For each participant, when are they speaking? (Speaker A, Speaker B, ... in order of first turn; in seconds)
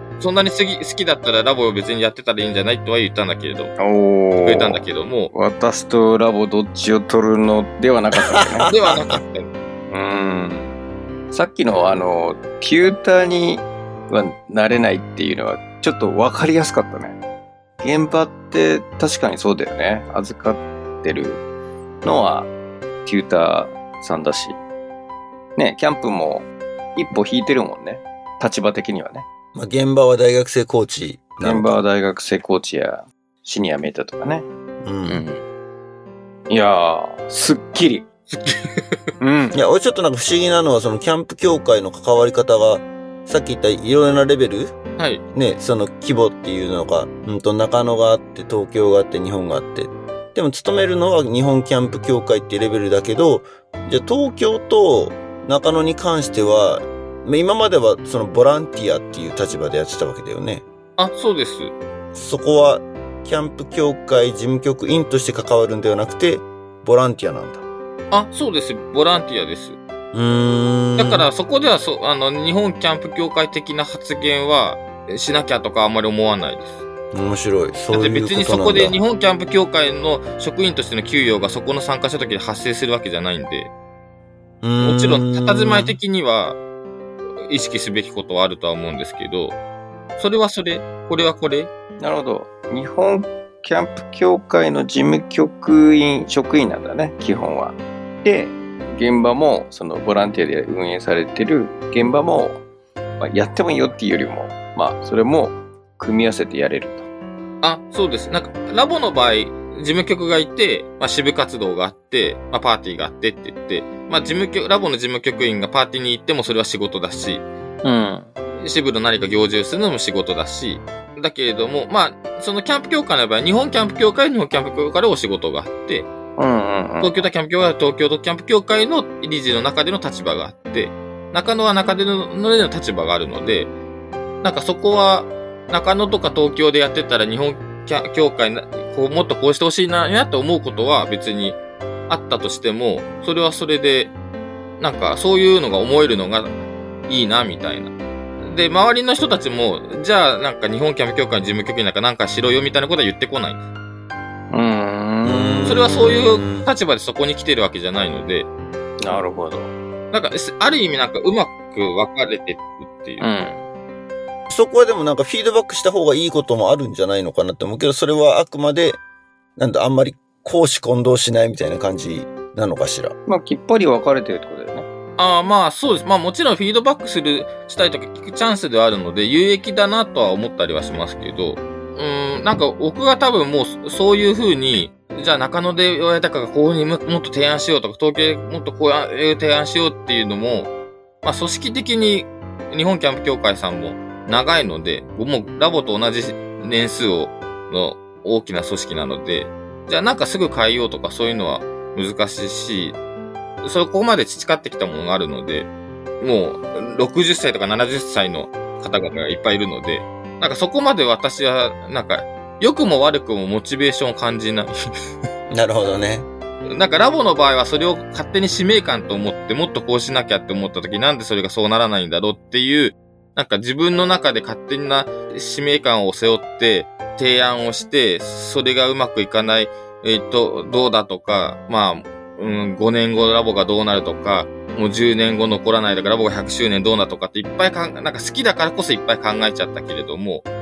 Speaker A: 0.2-3.7, 4.4-5.3, 8.7-9.5, 38.3-39.0, 61.0-61.7, 68.1-69.8, 71.0-76.8, 77.9-83.7, 84.8-86.6, 87.4-89.6, 90.2-91.7, 107.6-117.5, 118.6-126.1, 127.0-133.7, 134.4-144.1, 144.8-146.5, 147.1-153.6, 155.7-158.5, 160.1-163.3, 175.2-190.7, 191.2-203.0, 203.6-214.7, 216.7-240.5
Speaker B: 3.8-8.7, 9.9-10.7, 11.3-17.2, 17.8-21.4, 22.0-22.5, 23.1-24.6, 25.6-29.3, 31.4-34.5, 35.1-35.4, 36.5-38.1, 39.2-39.6, 92.0-102.6, 103.2-107.1, 117.8-118.3, 126.4-127.2, 154.5-155.8, 159.0-159.7, 163.2-163.7, 173.3-174.9
Speaker C: 8.3-9.2, 29.5-31.8, 34.8-35.2, 39.5-44.8, 45.3-60.6, 62.1-67.6, 70.1-71.3, 77.1-79.0, 84.6-86.0, 155.2-156.7, 164.5-169.0, 169.6-173.2, 215.5-216.3